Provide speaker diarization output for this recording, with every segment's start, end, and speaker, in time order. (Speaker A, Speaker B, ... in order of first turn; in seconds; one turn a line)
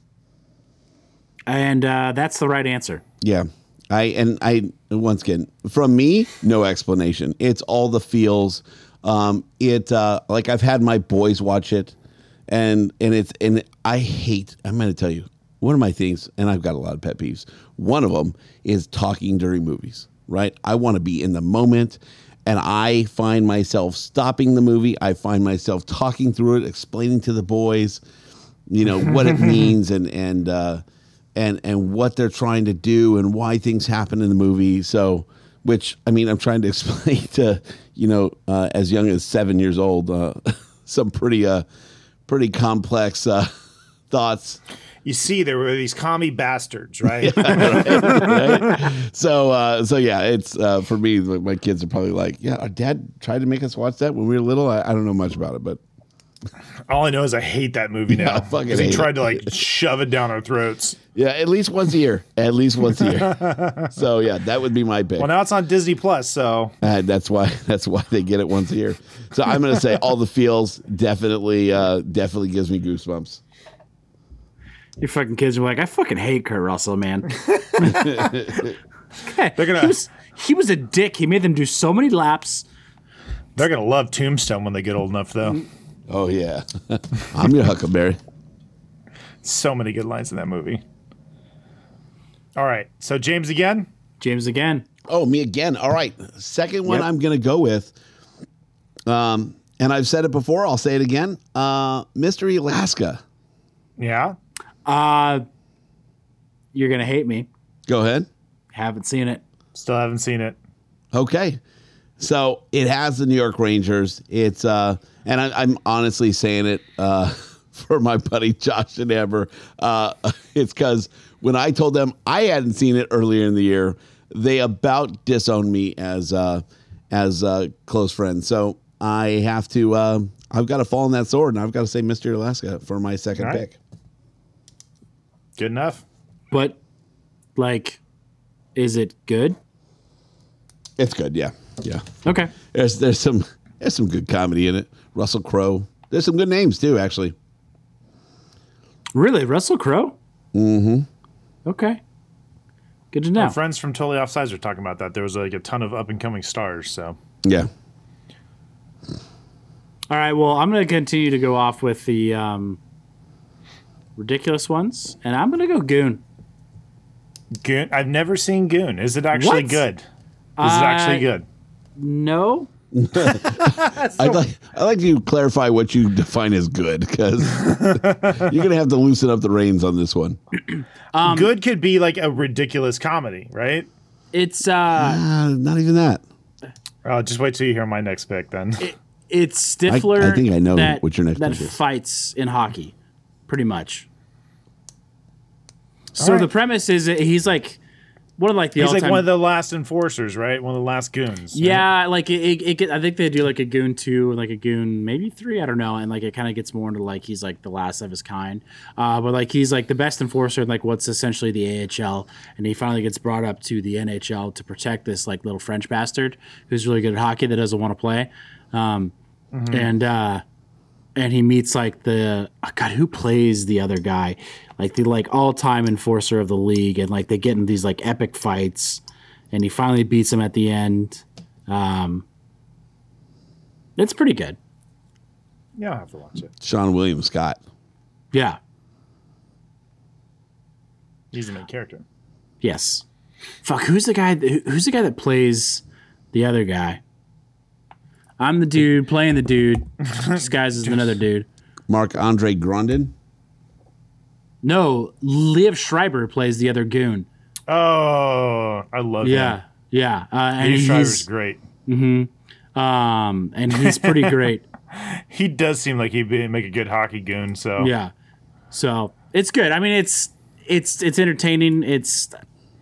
Speaker A: 1.5-3.0
Speaker B: 3.2-11.9
Speaker B: 12.5-28.0
Speaker B: 28.7-30.8
Speaker B: 31.4-41.6
Speaker B: 42.3-43.5
Speaker B: 44.1-44.6
Speaker C: 45.0-48.5
Speaker B: 47.2-55.8
Speaker C: 56.9-61.0
Speaker B: 58.1-59.5
Speaker B: 61.1-65.3
Speaker C: 63.3-63.9
Speaker C: 65.2-66.7
Speaker B: 66.8-73.4
Speaker A: 75.0-78.2
Speaker B: 77.8-78.8
Speaker A: 79.2-82.6
Speaker C: 79.6-80.0
Speaker C: 83.5-85.6
Speaker B: 86.1-88.2
Speaker C: 89.4-90.8
Speaker C: 92.5-93.9
Speaker A: 94.2-94.8
Speaker B: 95.1-97.9
Speaker B: 99.0-103.2
Speaker C: 104.0-104.3
Speaker A: 104.8-105.4
Speaker A: 106.7-107.5
Speaker B: 107.9-108.3
Speaker A: 108.7-109.4
Speaker C: 109.7-110.6
Speaker B: 111.1-111.6
Speaker B: 112.2-133.8
Speaker C: 133.4-133.6
Speaker C: 135.6-136.0
Speaker A: 136.5-136.8
Speaker A: 137.6-138.0
Speaker A: 138.7-139.6
Speaker B: 141.0-142.0
Speaker A: 142.2-142.5
Speaker B: 142.7-147.3
Speaker A: 149.1-150.2
Speaker B: 150.5-151.1
Speaker A: 151.7-152.0
Speaker A: 153.1-153.6
Speaker C: 153.4-157.2
Speaker B: 157.4-157.7
Speaker A: 160.1-162.8
Speaker A: 164.2-166.2
Speaker C: 167.6-170.0
Speaker A: 169.3-169.8
Speaker A: 170.6-171.3
Speaker C: 170.6-171.4
Speaker A: 172.0-172.7
Speaker B: 172.9-180.4
Speaker C: 173.8-174.4
Speaker C: 177.7-178.5
Speaker A: 181.1-181.5
Speaker C: 181.2-183.9
Speaker A: 184.3-185.2
Speaker B: 184.9-186.2
Speaker C: 187.0-188.8
Speaker A: 188.8-192.9
Speaker B: 189.9-191.8
Speaker A: 193.5-194.1
Speaker A: 196.2-197.8
Speaker C: 196.2-196.5
Speaker A: 198.4-199.3
Speaker C: 198.8-201.8
Speaker A: 201.5-219.1
Speaker C: 219.5-219.9
Speaker A: 219.7-220.4
Speaker A: 221.2-232.2
Speaker A: 234.0-234.6
Speaker C: 235.8-236.5
Speaker B: 236.6-237.6
Speaker A: 238.3-238.6
Speaker C: 241.3-242.0
Speaker A: 242.6-243.0
Speaker A: 243.6-247.0
Speaker A: 248.4-251.4
Speaker C: 250.0-251.2
Speaker B: 251.9-253.1
Speaker A: 254.6-257.3
Speaker C: 257.7-259.6
Speaker A: 259.2-261.2
Speaker C: 260.6-261.6
Speaker A: 261.9-264.6
Speaker C: 263.8-267.9
Speaker A: 267.8-268.1
Speaker A: 268.7-272.4